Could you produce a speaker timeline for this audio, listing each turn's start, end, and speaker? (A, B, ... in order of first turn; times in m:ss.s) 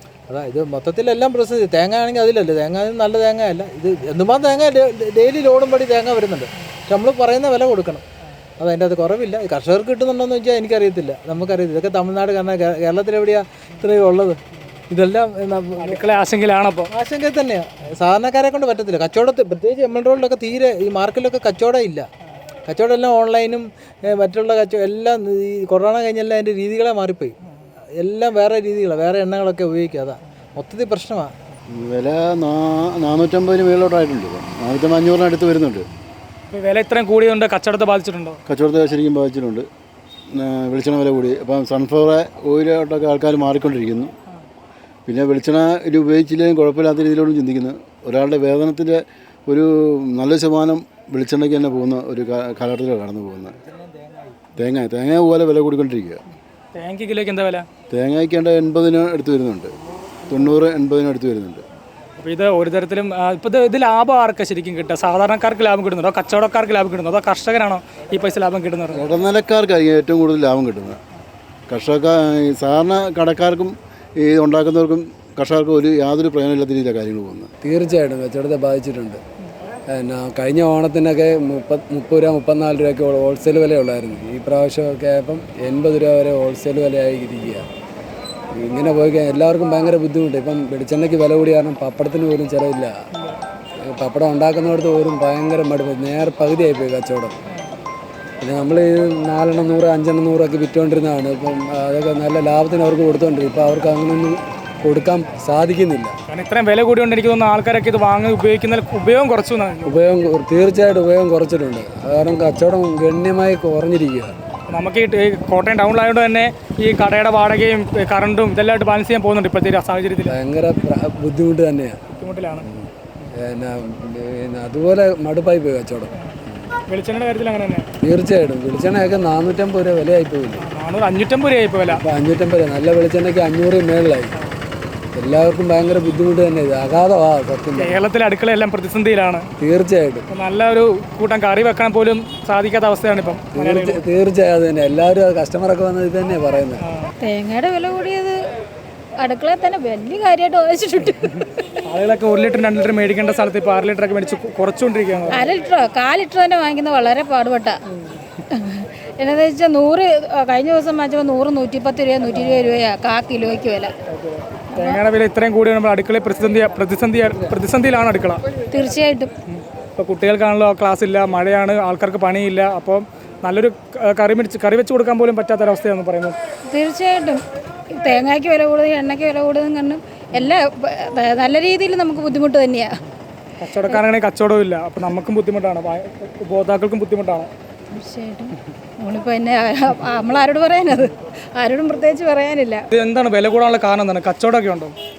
0:00.3-0:08.0 A
0:08.6-0:14.4 A
0:14.9-0:16.0 A
0:15.8-0:16.9 B
0:16.9-0:22.1 A
0:22.7-0:27.4 A
0:28.0-0:31.3 A
0:31.7-0:35.8 C
0:36.5-0:38.4 B
0:38.5-0:39.6 C
0:40.3-0:44.1 C
0:45.1-0:53.6 C
0:54.6-0:56.2 C
0:56.8-0:57.6 B
0:57.9-0:59.7 C
1:00.3-1:01.6 C
1:02.2-1:09.0 B
1:08.9-1:11.0 C
1:11.7-1:17.5 C
1:17.6-1:19.2 D
1:19.9-1:27.6 D
1:28.5-1:32.9 D
1:33.9-1:37.4 D
1:38.4-1:46.1 D
1:46.3-1:49.9 B
1:49.8-1:54.4 D
1:54.7-2:00.3 B
2:00.3-2:02.0 D
2:02.2-2:02.6 B
2:02.6-2:06.1 D
2:06.9-2:07.8 B
2:08.0-2:10.6 D
2:10.6-2:12.0 B
2:12.0-2:14.3 D
2:15.1-2:18.0 D
2:17.8-2:19.4 B
2:19.6-2:20.2 D
2:20.3-2:24.0 B
2:23.5-2:26.8 D
2:27.2-2:28.4 E
2:29.2-2:31.3 E
2:31.9-2:35.5 B
2:35.3-2:37.8 E
2:38.5-2:43.9 E
2:42.3-2:42.7 B
2:44.1-2:48.4 B
2:44.7-2:45.0 E
2:48.7-2:49.3 E
2:50.0-2:56.3 B
2:56.7-2:57.4 E
2:57.9-3:02.9 E
3:03.6-3:07.5 B
3:07.9-3:12.8 E
3:12.9-3:14.9 B